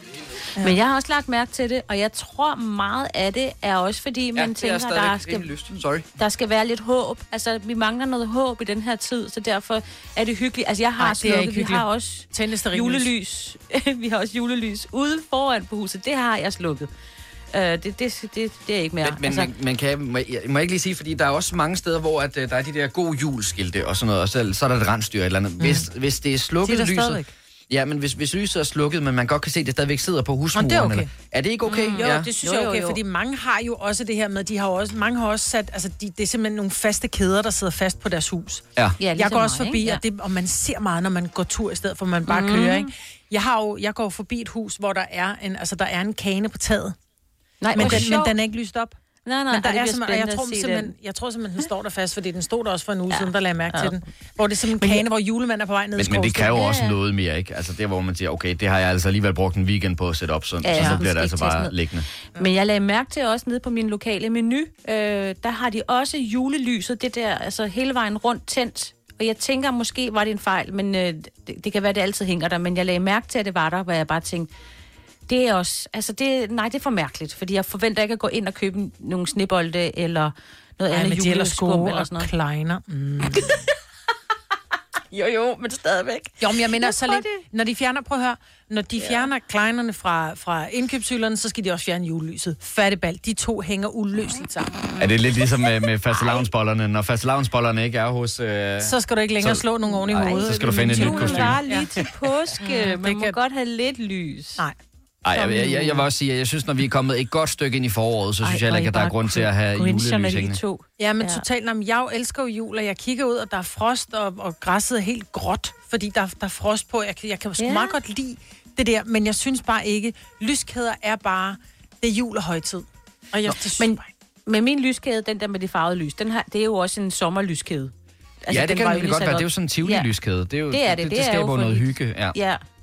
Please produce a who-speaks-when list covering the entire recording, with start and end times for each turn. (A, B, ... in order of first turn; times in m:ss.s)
0:00.5-0:05.5 A
0:04.4-0:06.0 B
0:06.2-0:16.9 A
0:11.0-0:13.1 C
0:17.5-0:19.5 A
0:19.0-0:32.3 B
0:25.6-0:25.9 C
0:26.6-0:27.3 C
0:30.5-0:31.1 C
0:31.7-0:33.0 A
0:31.8-0:38.6 C
0:39.0-0:40.0 A
0:39.2-0:47.0 C
0:42.3-0:42.9 A
0:47.6-0:48.3 A
0:47.7-0:48.1 B
0:47.7-0:49.0 C
0:49.2-0:50.9 A
0:49.5-0:56.6 C
0:53.1-0:54.0 A
0:54.8-0:55.0 A
0:56.0-1:02.1 B
0:56.5-0:57.0 A
1:00.6-1:14.5 A
1:00.7-1:01.0 C
1:15.3-1:22.3 A
1:20.9-1:23.6 C
1:23.3-1:23.7 A
1:25.1-1:27.4 A
1:26.4-1:34.8 C
1:29.0-1:29.3 A
1:35.0-1:41.6 B
1:38.8-1:41.9 C
1:39.8-1:44.6 A
1:42.6-1:43.4 C
1:45.2-1:50.6 B
1:45.3-1:46.1 A
1:48.4-1:51.4 A
1:51.0-2:04.1 C
1:57.6-1:58.0 A
2:03.8-2:07.9 A
2:08.4-2:10.1 A
2:08.5-2:12.4 B
2:10.7-2:12.6 A